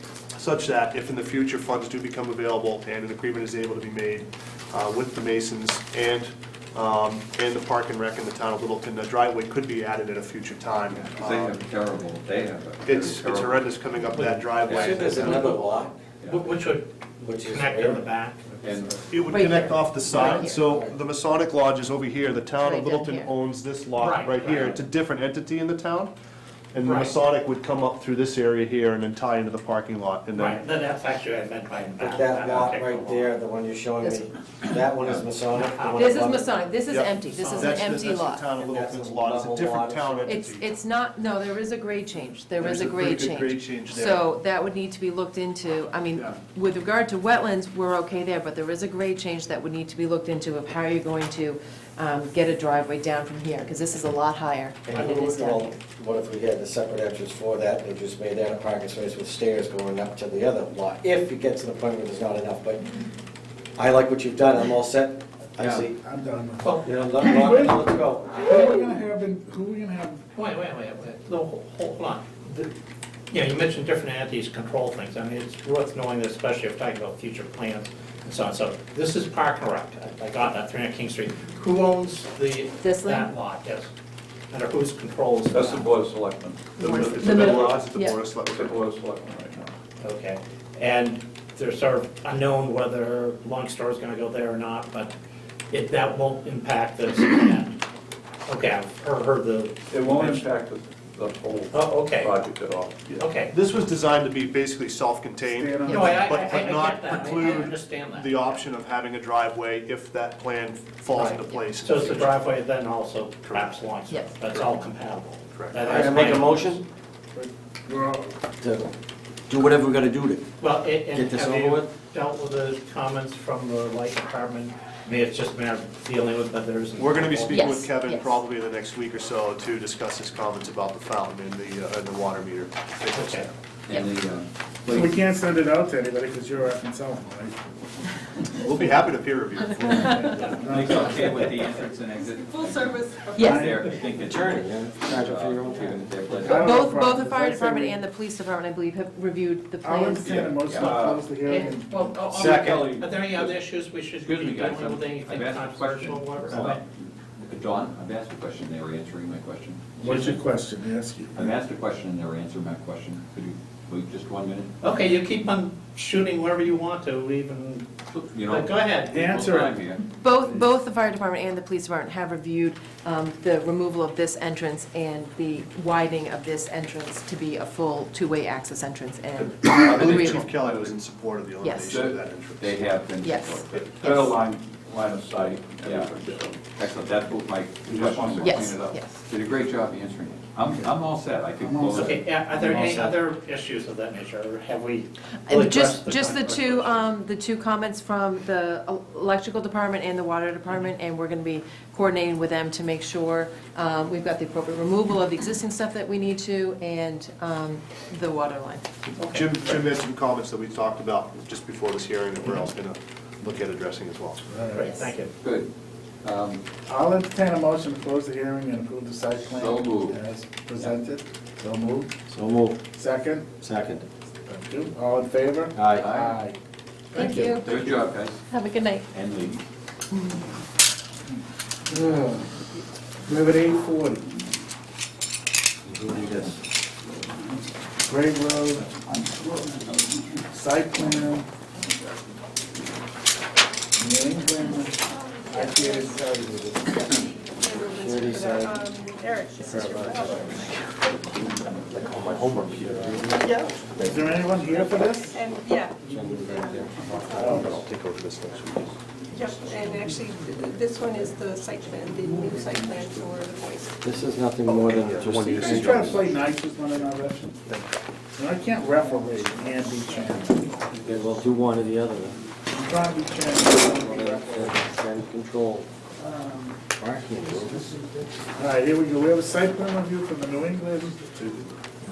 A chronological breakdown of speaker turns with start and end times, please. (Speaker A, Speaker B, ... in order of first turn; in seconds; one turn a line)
Speaker A: 0.3-11.6
Speaker B: 11.0-13.7
Speaker A: 12.8-15.4
Speaker C: 14.1-15.7
Speaker D: 14.7-16.0
Speaker B: 14.9-15.3
Speaker C: 16.2-18.4
Speaker D: 17.2-18.0
Speaker B: 18.6-19.1
Speaker A: 19.1-26.1
Speaker E: 19.3-20.6
Speaker B: 20.1-20.4
Speaker E: 22.6-23.3
Speaker C: 24.0-24.8
Speaker A: 26.7-30.6
Speaker C: 26.8-27.2
Speaker C: 30.4-33.3
Speaker D: 32.0-36.5
Speaker C: 35.1-36.5
Speaker E: 36.0-38.5
Speaker A: 36.9-40.7
Speaker C: 37.3-37.8
Speaker D: 38.6-40.4
Speaker E: 40.3-55.7
Speaker A: 42.6-44.3
Speaker D: 54.9-62.9
Speaker D: 63.8-66.0
Speaker B: 65.6-65.8
Speaker F: 65.9-70.2
Speaker C: 66.6-66.9
Speaker D: 66.8-68.5
Speaker C: 70.3-72.7
Speaker C: 73.3-83.9
Speaker E: 82.8-83.3
Speaker C: 84.5-85.9
Speaker G: 85.5-87.7
Speaker E: 86.8-88.2
Speaker A: 86.8-88.8
Speaker G: 88.6-89.6
Speaker C: 90.0-95.1
Speaker C: 95.7-97.8
Speaker C: 98.5-100.5
Speaker G: 99.9-103.1
Speaker C: 101.7-102.4
Speaker C: 103.2-103.5
Speaker A: 103.3-112.3
Speaker F: 105.5-106.3
Speaker E: 105.9-106.1
Speaker C: 105.9-108.4
Speaker C: 111.1-116.8
Speaker A: 113.5-113.8
Speaker A: 115.5-115.9
Speaker D: 115.8-116.8
Speaker F: 117.3-118.4
Speaker D: 118.6-118.9
Speaker D: 119.5-120.5
Speaker C: 120.6-127.6
Speaker D: 121.1-121.9
Speaker A: 127.0-133.5
Speaker E: 127.5-128.4
Speaker C: 133.1-133.5
Speaker B: 133.9-135.2
Speaker F: 134.9-137.8
Speaker A: 138.6-140.6
Speaker F: 139.9-141.6
Speaker B: 140.6-146.7
Speaker H: 142.6-143.4
Speaker E: 143.3-143.7
Speaker F: 143.4-143.9
Speaker D: 144.2-146.7
Speaker F: 146.3-148.0
Speaker E: 146.6-150.3
Speaker F: 149.8-152.0
Speaker B: 150.3-151.3
Speaker C: 150.8-156.8
Speaker B: 152.3-153.5
Speaker B: 154.2-160.4
Speaker F: 160.0-161.6
Speaker C: 160.0-160.3
Speaker B: 161.3-164.7
Speaker C: 164.8-167.9
Speaker B: 168.1-170.1
Speaker C: 168.4-169.2
Speaker F: 169.1-169.9
Speaker E: 170.1-180.4
Speaker A: 179.5-182.8
Speaker B: 179.8-180.2
Speaker G: 180.2-180.8
Speaker E: 181.6-181.9
Speaker B: 181.9-184.2
Speaker E: 183.2-184.4
Speaker G: 184.0-186.6
Speaker B: 185.8-192.2
Speaker G: 187.9-188.6
Speaker E: 188.4-189.2
Speaker F: 191.6-193.2
Speaker C: 191.9-197.0
Speaker E: 195.5-208.9
Speaker C: 209.2-209.8
Speaker A: 209.3-214.4
Speaker F: 214.5-214.9
Speaker C: 214.7-215.3
Speaker B: 215.4-215.7
Speaker B: 216.2-216.6
Speaker F: 216.9-222.1
Speaker B: 219.4-220.2
Speaker D: 222.3-222.8
Speaker F: 222.9-223.5
Speaker D: 223.6-224.0
Speaker F: 224.5-226.6
Speaker D: 225.7-226.2
Speaker B: 225.9-226.4
Speaker F: 227.1-228.0
Speaker E: 227.1-227.8
Speaker B: 227.6-228.4
Speaker E: 228.5-229.1
Speaker B: 229.1-229.6
Speaker E: 230.1-230.4
Speaker D: 232.0-232.3
Speaker F: 233.2-234.3
Speaker D: 235.8-236.6
Speaker F: 237.4-241.5
Speaker F: 243.9-247.0
Speaker H: 245.1-251.3
Speaker D: 247.8-248.8
Speaker D: 249.6-250.8
Speaker A: 251.9-253.0
Speaker D: 251.9-254.4
Speaker H: 253.3-253.9
Speaker F: 253.9-255.4
Speaker H: 254.8-257.6
Speaker D: 256.0-258.6
Speaker F: 257.3-257.8
Speaker A: 257.5-258.9
Speaker H: 259.3-263.9
Speaker F: 259.9-260.2
Speaker F: 262.2-262.9
Speaker D: 264.0-266.3
Speaker A: 264.7-266.1
Speaker F: 265.5-270.8
Speaker D: 271.0-272.4
Speaker F: 272.7-274.8
Speaker D: 273.7-275.9
Speaker F: 276.2-276.8
Speaker D: 277.0-278.0
Speaker F: 278.6-281.3